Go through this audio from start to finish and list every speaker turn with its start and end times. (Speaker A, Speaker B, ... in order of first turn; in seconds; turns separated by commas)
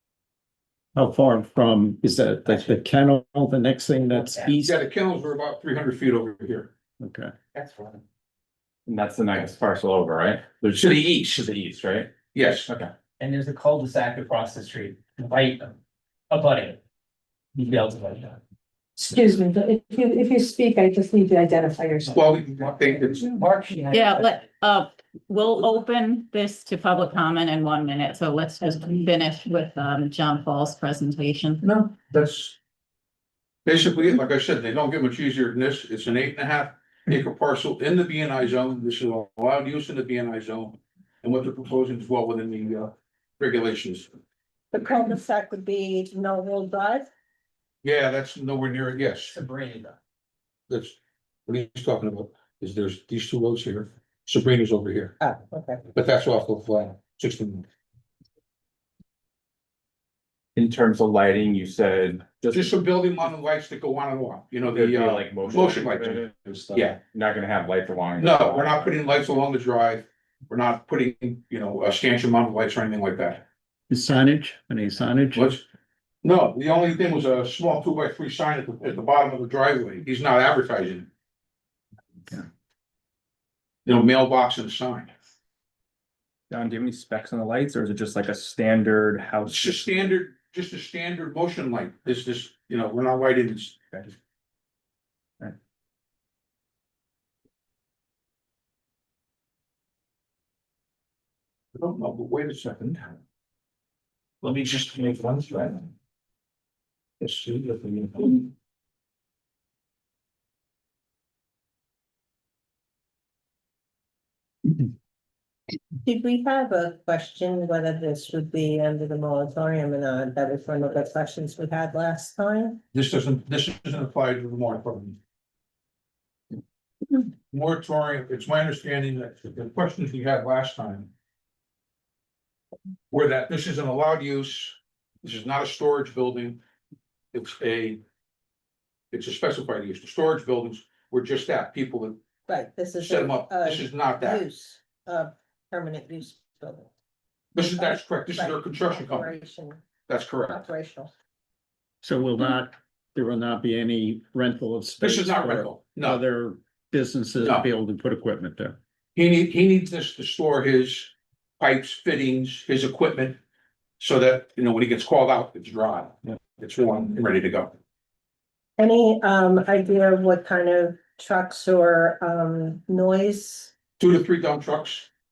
Speaker A: 0.9-4.8, Speaker B: 4.6-6.7, Speaker A: 7.0-7.3, Speaker C: 7.5-8.0, Speaker D: 8.8-12.2, Speaker B: 10.8-11.4, Speaker B: 12.3-12.7, Speaker D: 12.7-12.9, Speaker C: 13.2-15.7, Speaker C: 16.3-16.8, Speaker C: 17.6-18.4, Speaker E: 19.0-24.1, Speaker B: 22.1-23.4, Speaker C: 23.4-24.2, Speaker F: 23.9-31.6, Speaker B: 31.6-32.5, Speaker B: 33.6-44.1, Speaker G: 44.7-47.1, Speaker B: 47.8-49.4, Speaker C: 49.4-49.9, Speaker B: 50.7-55.2, Speaker G: 55.2-55.8, Speaker B: 55.9-57.6, Speaker D: 60.5-62.8, Speaker B: 62.5-67.0, Speaker D: 64.7-69.0, Speaker B: 68.2-73.4, Speaker A: 73.9-75.5, Speaker B: 75.3-75.6, Speaker B: 76.2-81.1, Speaker B: 83.8-85.1, Speaker D: 86.8-87.8, Speaker D: 88.5-89.8, Speaker B: 89.5-93.8, Speaker B: 101.7-103.1, Speaker B: 104.4-105.8, Speaker B: 107.2-108.5, Speaker G: 116.0-122.8, Speaker B: 122.9-125.2, Speaker B: 127.5-131.1, Speaker B: 133.1-136.6, Speaker B: 137.3-138.0, Speaker B: 139.1-142.2, Speaker G: 142.5-146.9, Speaker B: 143.0-144.4, Speaker B: 147.5-149.3, Speaker G: 147.6-149.8, Speaker B: 150.1-150.7, Speaker G: 150.5-151.1, Speaker A: 152.0-158.8, Speaker B: 155.0-156.2, Speaker B: 157.4-157.7, Speaker B: 159.2-163.4, Speaker B: 164.0-167.7, Speaker G: 168.8-173.7, Speaker B: 174.0-175.1